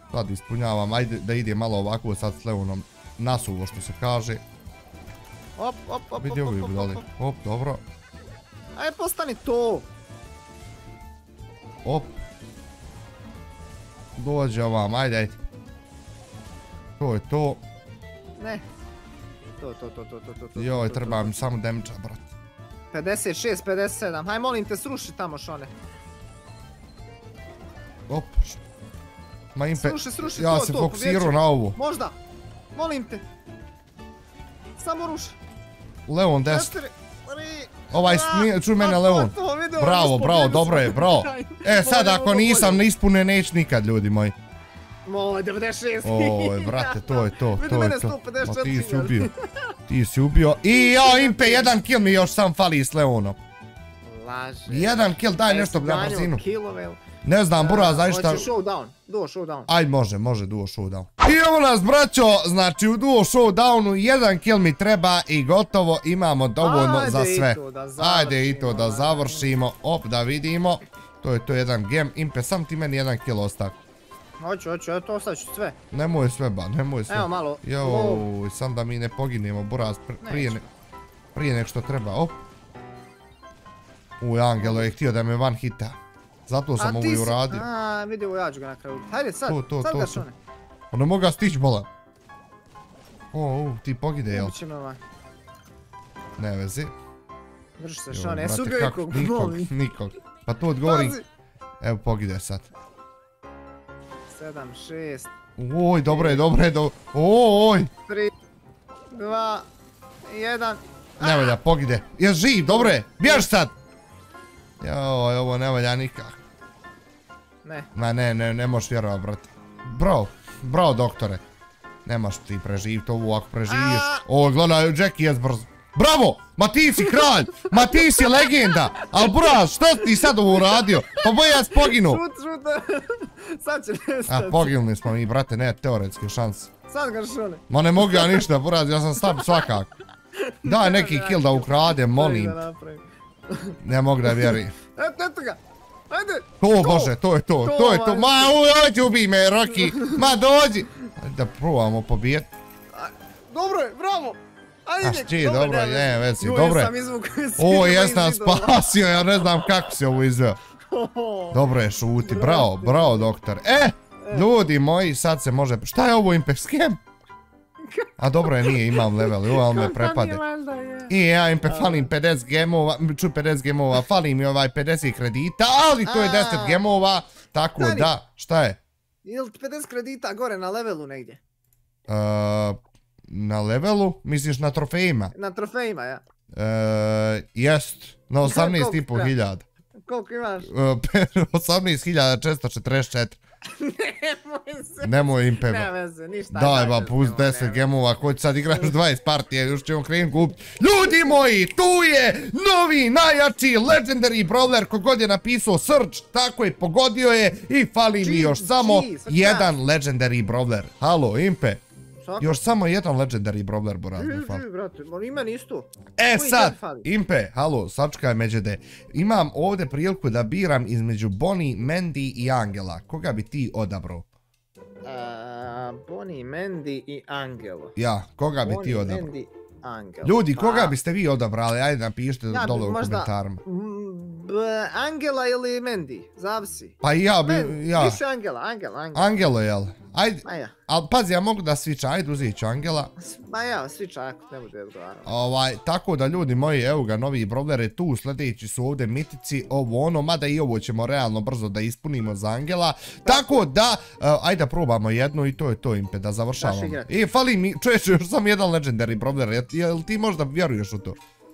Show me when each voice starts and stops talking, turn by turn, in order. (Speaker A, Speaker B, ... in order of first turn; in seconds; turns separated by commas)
Speaker A: 0.1-4.4, Speaker B: 5.6-7.0, Speaker A: 6.2-7.8, Speaker B: 8.7-9.9, Speaker A: 11.8-12.1, Speaker A: 14.2-15.4, Speaker A: 17.0-17.6, Speaker B: 18.4-18.6, Speaker B: 19.6-21.5, Speaker A: 20.6-22.3, Speaker B: 22.9-25.7, Speaker A: 28.1-28.6, Speaker A: 29.5-31.8, Speaker B: 29.7-32.1, Speaker B: 32.7-33.2, Speaker B: 34.8-35.4, Speaker A: 36.1-36.7, Speaker B: 36.4-42.9, Speaker A: 37.9-44.3, Speaker B: 45.0-49.7, Speaker A: 46.0-49.3, Speaker A: 49.9-53.4, Speaker B: 50.7-51.8, Speaker B: 54.0-57.0, Speaker A: 54.7-56.4, Speaker A: 57.2-58.5, Speaker B: 57.5-59.7, Speaker A: 59.7-73.8, Speaker B: 66.6-69.5, Speaker B: 74.4-75.8, Speaker A: 75.9-80.6, Speaker B: 77.1-78.3, Speaker B: 80.2-80.7, Speaker A: 81.3-82.4, Speaker A: 84.2-87.6, Speaker B: 84.6-84.9, Speaker B: 86.8-90.3, Speaker A: 89.5-90.2, Speaker A: 90.9-91.9, Speaker A: 93.3-94.5, Speaker B: 94.3-95.0, Speaker A: 96.4-96.9, Speaker B: 97.8-99.7, Speaker A: 98.1-101.2, Speaker B: 100.8-101.2, Speaker A: 101.8-102.7, Speaker B: 104.3-105.3, Speaker A: 105.6-107.9, Speaker B: 106.0-106.4, Speaker B: 108.1-108.3, Speaker B: 109.1-109.7, Speaker B: 110.2-111.6, Speaker A: 111.2-113.7, Speaker B: 112.7-113.5, Speaker A: 114.8-116.4, Speaker B: 117.6-117.9, Speaker A: 117.9-121.4, Speaker A: 122.0-132.2, Speaker B: 123.7-124.2, Speaker B: 127.0-134.8, Speaker A: 134.3-136.7, Speaker B: 136.9-138.5, Speaker A: 137.7-139.9, Speaker B: 139.2-139.7, Speaker B: 140.3-148.6, Speaker A: 140.6-142.6, Speaker A: 143.8-144.7, Speaker A: 146.6-152.5, Speaker B: 149.7-150.3, Speaker B: 152.9-159.9, Speaker A: 155.0-156.9, Speaker A: 157.6-160.6, Speaker B: 160.9-161.6, Speaker A: 161.5-167.0, Speaker B: 162.2-163.3, Speaker B: 164.2-164.4, Speaker B: 167.8-172.1, Speaker A: 168.2-170.4, Speaker A: 171.1-178.8, Speaker B: 176.0-176.8, Speaker B: 177.8-178.1, Speaker B: 179.2-181.4, Speaker A: 182.1-185.3, Speaker B: 185.3-186.2, Speaker A: 186.5-189.7, Speaker B: 188.4-189.3, Speaker B: 190.0-190.7, Speaker A: 190.6-193.4, Speaker B: 193.7-197.8, Speaker A: 195.0-195.9, Speaker A: 196.5-211.8, Speaker B: 208.2-209.7, Speaker B: 212.2-212.6, Speaker A: 212.4-214.6, Speaker B: 214.2-217.1, Speaker A: 216.2-224.2, Speaker B: 225.0-227.9, Speaker A: 227.9-229.3, Speaker B: 228.6-230.9, Speaker A: 230.2-233.6, Speaker B: 232.5-239.4, Speaker A: 237.0-238.2, Speaker A: 239.1-243.1, Speaker B: 240.4-240.7, Speaker B: 243.2-245.3, Speaker A: 245.2-261.2, Speaker B: 253.2-253.7, Speaker B: 256.6-257.1